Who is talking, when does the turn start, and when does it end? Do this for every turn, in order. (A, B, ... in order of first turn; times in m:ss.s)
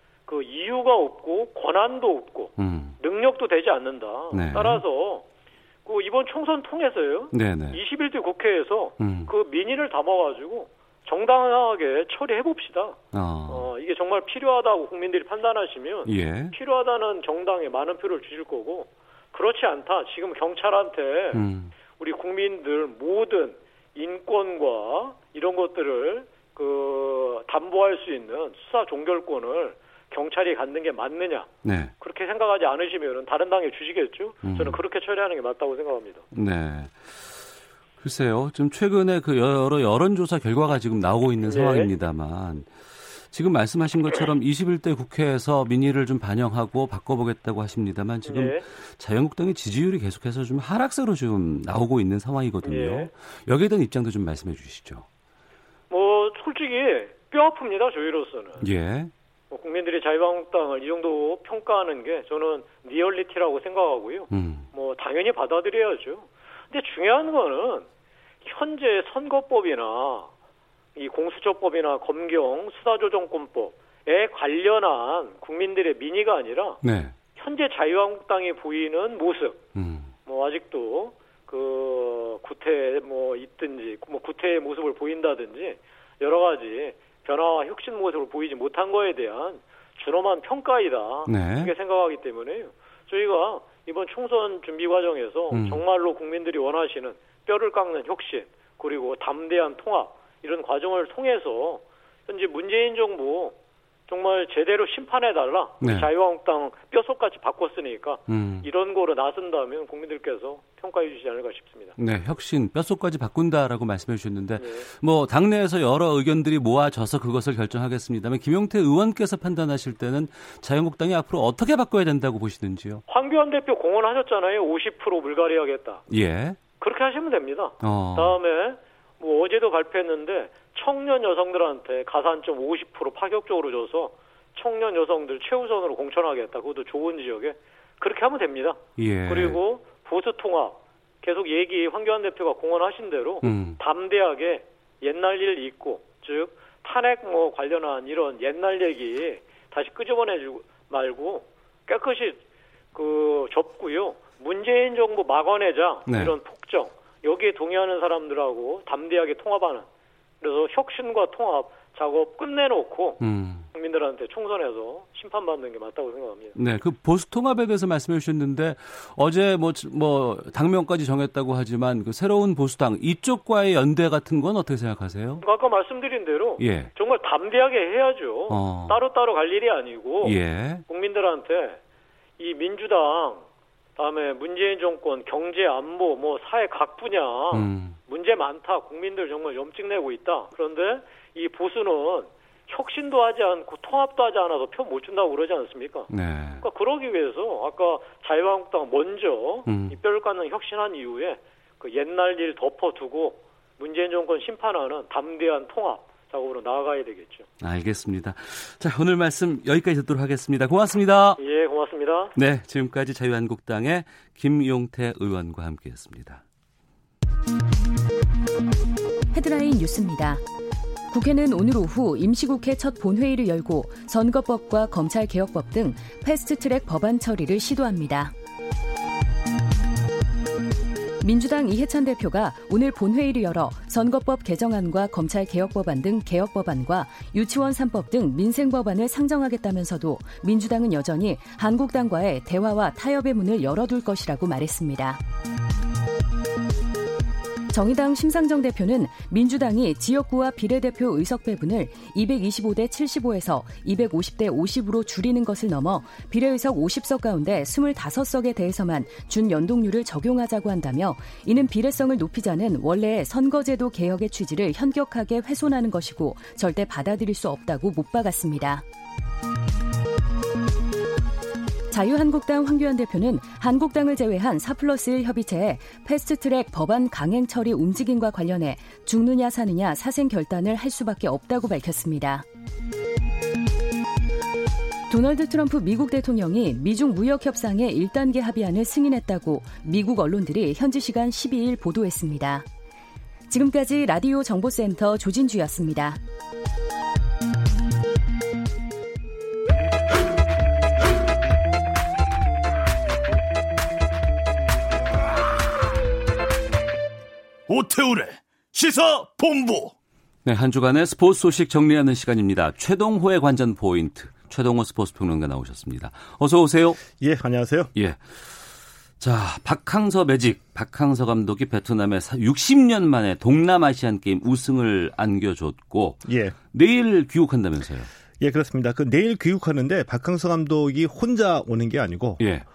0:00.3-0:05.2 A
0:02.6-0:03.0 B
0:04.3-0:04.8 B
0:05.8-0:21.4 A
0:07.3-0:07.8 B
0:09.0-0:09.3 B
0:13.1-0:13.7 B
0:16.0-0:16.5 B
0:21.3-0:21.7 B
0:22.0-0:31.5 A
0:31.6-0:31.9 B
0:32.0-0:36.2 A
0:34.4-0:34.8 B
0:36.3-0:37.4 B
0:38.0-0:55.0 B
0:41.5-0:41.9 A
0:48.2-0:48.6 A
0:52.6-0:53.1 A
0:55.9-0:58.7 A
0:58.6-0:59.1 B
0:59.5-1:07.8 A
1:04.3-1:04.7 B
1:08.4-1:10.3 A
1:11.0-1:16.8 A
1:16.8-1:17.1 B
1:17.4-1:19.6 A
1:19.7-1:20.1 B
1:20.2-1:43.5 A
1:31.2-1:31.7 B
1:35.5-1:35.8 B
1:44.1-1:52.0 A
1:45.8-1:46.1 B
1:48.3-1:48.7 B
1:52.0-2:03.0 B
1:54.6-1:54.9 A
2:03.1-2:06.0 A
2:06.1-2:06.6 B
2:06.8-2:32.4 A
2:07.8-2:08.4 B
2:19.0-2:19.6 B
2:23.4-2:23.8 B
2:32.9-2:39.8 A
2:36.1-2:36.3 B
2:40.4-2:43.2 A
2:43.2-2:43.7 B
2:43.7-2:46.6 A
2:46.6-2:55.4 B
2:55.4-3:01.8 A
2:56.6-2:56.9 B
2:58.5-2:59.0 B
3:00.2-3:00.8 B
3:02.4-3:03.4 A
3:04.0-3:16.1 A
3:07.5-3:08.0 B
3:16.1-3:16.6 B
3:16.6-3:27.4 A
3:19.7-3:20.0 B
3:27.6-3:31.4 B
3:31.4-3:32.3 A
3:32.3-3:36.4 B
3:39.3-3:40.4 C
3:41.1-3:48.3 C
3:51.2-4:05.2 C
4:07.7-4:28.8 C
4:31.9-4:42.4 C
4:45.1-4:52.6 C
4:53.5-4:56.2 C
5:07.7-5:09.9 D
5:10.4-5:17.0 B
5:17.2-5:17.9 E
5:17.9-5:18.6 B
5:19.2-5:28.1 B
5:26.2-5:26.6 E
5:28.4-5:32.4 E
5:32.4-5:32.6 B